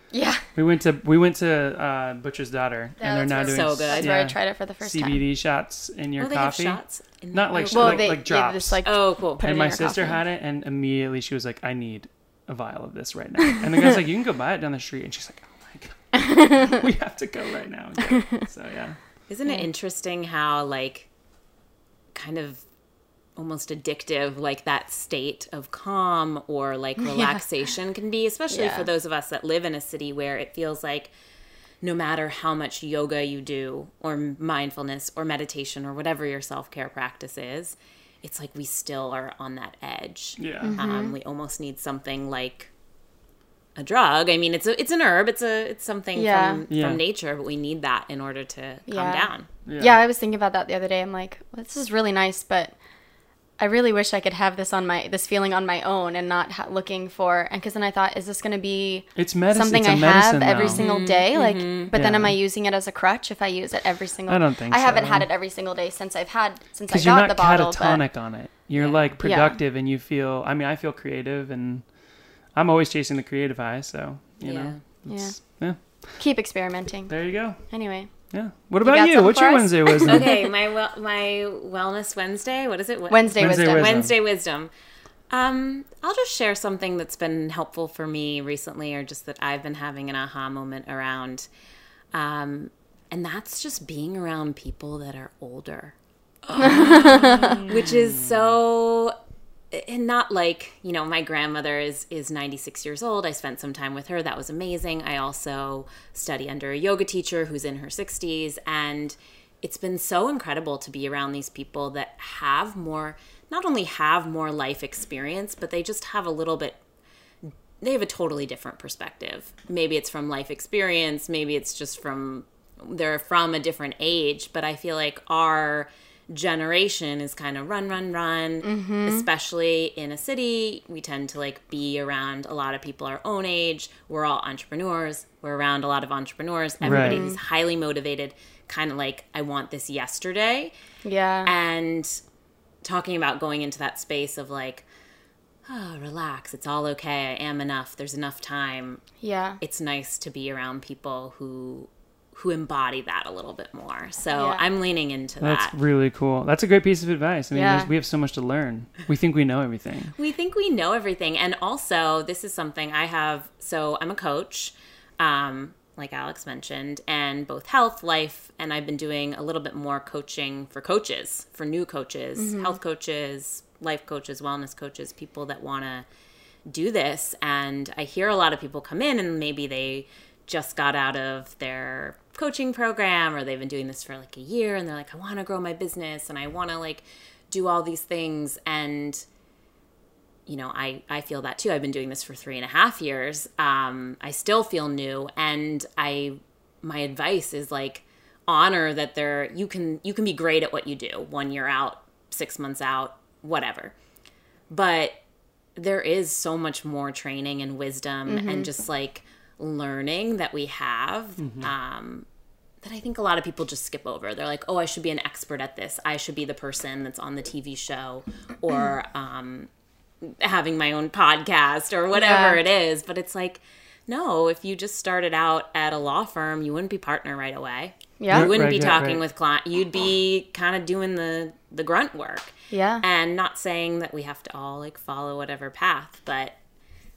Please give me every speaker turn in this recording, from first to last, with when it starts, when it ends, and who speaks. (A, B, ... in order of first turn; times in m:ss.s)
0:00.1-0:00.4 A
0:00.5-0:08.8 B
0:03.0-0:05.2 A
0:03.4-0:04.1 C
0:06.2-0:08.2 C
0:07.5-0:10.2 A
0:08.8-0:09.6 C
0:09.4-0:19.0 B
0:16.2-0:16.7 A
0:19.3-0:21.1 C
0:22.1-0:22.6 C
0:23.4-0:31.1 C
0:27.0-0:27.4 A
0:28.5-0:28.9 A
0:31.8-0:42.7 C
0:40.4-0:40.8 B
0:40.6-0:41.2 A
0:43.8-0:49.5 C
0:46.1-0:46.6 A
0:46.7-0:47.0 B
0:48.9-0:52.7 A
0:49.6-0:50.0 B
0:53.6-1:08.1 A
0:59.1-1:00.8 B
1:00.7-1:01.9 C
1:01.9-1:02.4 B
1:04.3-1:05.3 B
1:06.9-1:11.9 B
1:08.8-1:09.1 C
1:09.2-1:09.6 A
1:12.5-1:16.2 B
1:14.4-1:14.8 C
1:15.1-1:18.1 A
1:17.1-1:20.3 B
1:18.8-1:20.4 A
1:20.0-1:24.7 C
1:23.1-1:24.0 A
1:23.4-1:24.1 B
1:25.3-1:31.5 C
1:32.1-1:39.1 C
1:36.6-1:38.4 B
1:36.6-1:37.6 A
1:39.7-1:56.8 C
1:57.4-2:20.7 C
2:08.6-2:09.3 A
2:16.8-2:17.2 B
2:16.8-2:17.4 A
2:21.0-2:21.5 A
2:21.4-2:22.2 C
2:22.8-2:24.8 C
2:25.6-2:29.0 C
2:29.2-2:29.6 A
2:29.6-2:35.7 C
2:34.3-2:34.6 A
2:35.4-2:40.1 B
2:37.5-2:37.9 A
2:40.2-2:56.0 C
2:52.4-2:52.7 A
2:56.7-3:09.2 C
3:10.5-3:23.9 C
3:24.7-3:25.2 C
3:25.7-3:32.2 C
3:28.3-3:28.7 A
3:31.4-3:31.7 B
3:32.8-3:39.7 C
3:40.2-3:56.6 C
3:42.1-3:42.6 A
3:48.2-3:48.5 A
3:48.3-3:49.2 B
3:52.7-3:53.0 A